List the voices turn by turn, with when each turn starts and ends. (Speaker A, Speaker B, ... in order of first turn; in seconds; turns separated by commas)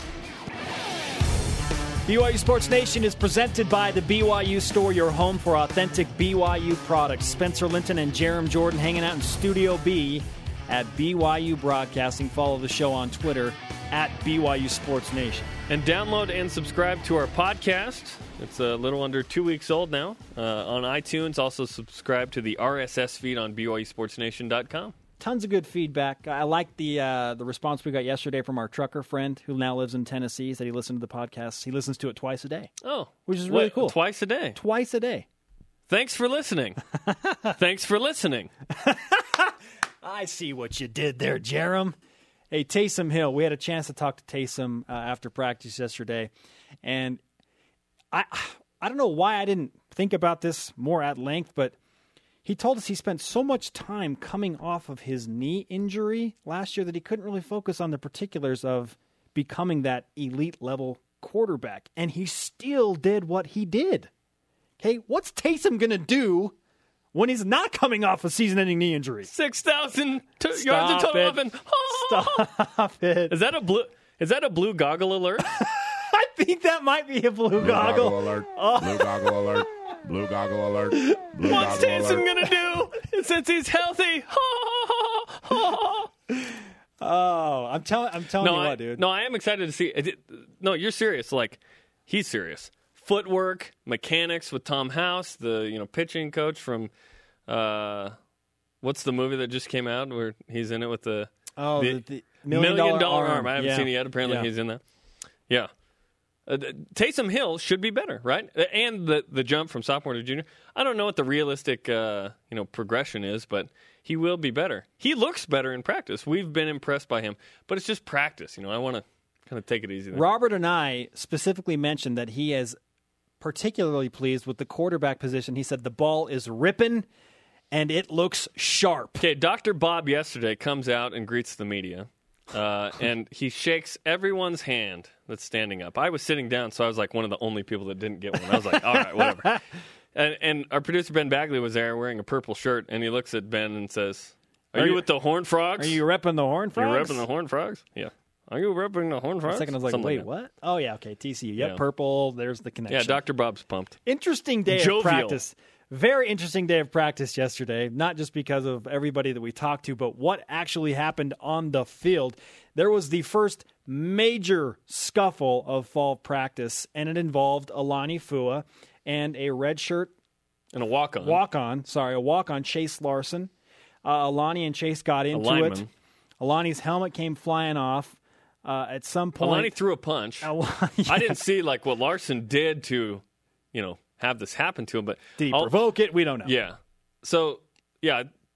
Speaker A: 2.0-15.5, Speaker B: 15.7-24.9, Speaker A: 25.2-32.7, Speaker B: 32.8-34.6, Speaker A: 33.3-34.0, Speaker A: 34.5-35.2, Speaker B: 35.9-36.8, Speaker A: 37.1-37.5, Speaker B: 37.5-38.5, Speaker A: 38.8-42.0, Speaker A: 42.5-46.3, Speaker A: 46.8-47.2, Speaker A: 48.1-51.8, Speaker A: 52.4-64.1, Speaker A: 64.8-66.5, Speaker A: 67.1-69.3, Speaker B: 69.3-72.5, Speaker A: 70.5-73.3, Speaker B: 73.3-75.5, Speaker A: 75.5-79.4, Speaker C: 77.6-82.3, Speaker B: 81.0-86.1, Speaker A: 86.5-89.0, Speaker B: 88.4-96.9, Speaker B: 97.5-98.1, Speaker B: 98.8-104.8, Speaker A: 101.6-104.5, Speaker B: 106.5-120.3, Speaker A: 120.1-122.8, Speaker A: 123.4-127.1, Speaker A: 127.7-129.2, Speaker B: 129.2-146.0, Speaker A: 139.0-139.3, Speaker A: 144.7-145.0, Speaker A: 145.8-147.2, Speaker B: 146.8-150.2, Speaker A: 149.5-153.2, Speaker B: 152.9-154.0, Speaker A: 154.1-170.1, Speaker B: 154.7-155.4, Speaker B: 170.7-171.4, Speaker A: 171.2-173.5, Speaker A: 174.0-175.8, Speaker B: 175.3-175.9, Speaker A: 176.4-179.7, Speaker B: 179.4-180.5, Speaker A: 180.4-181.4, Speaker B: 181.1-183.2, Speaker B: 183.7-185.8, Speaker A: 185.4-186.5, Speaker B: 186.4-188.2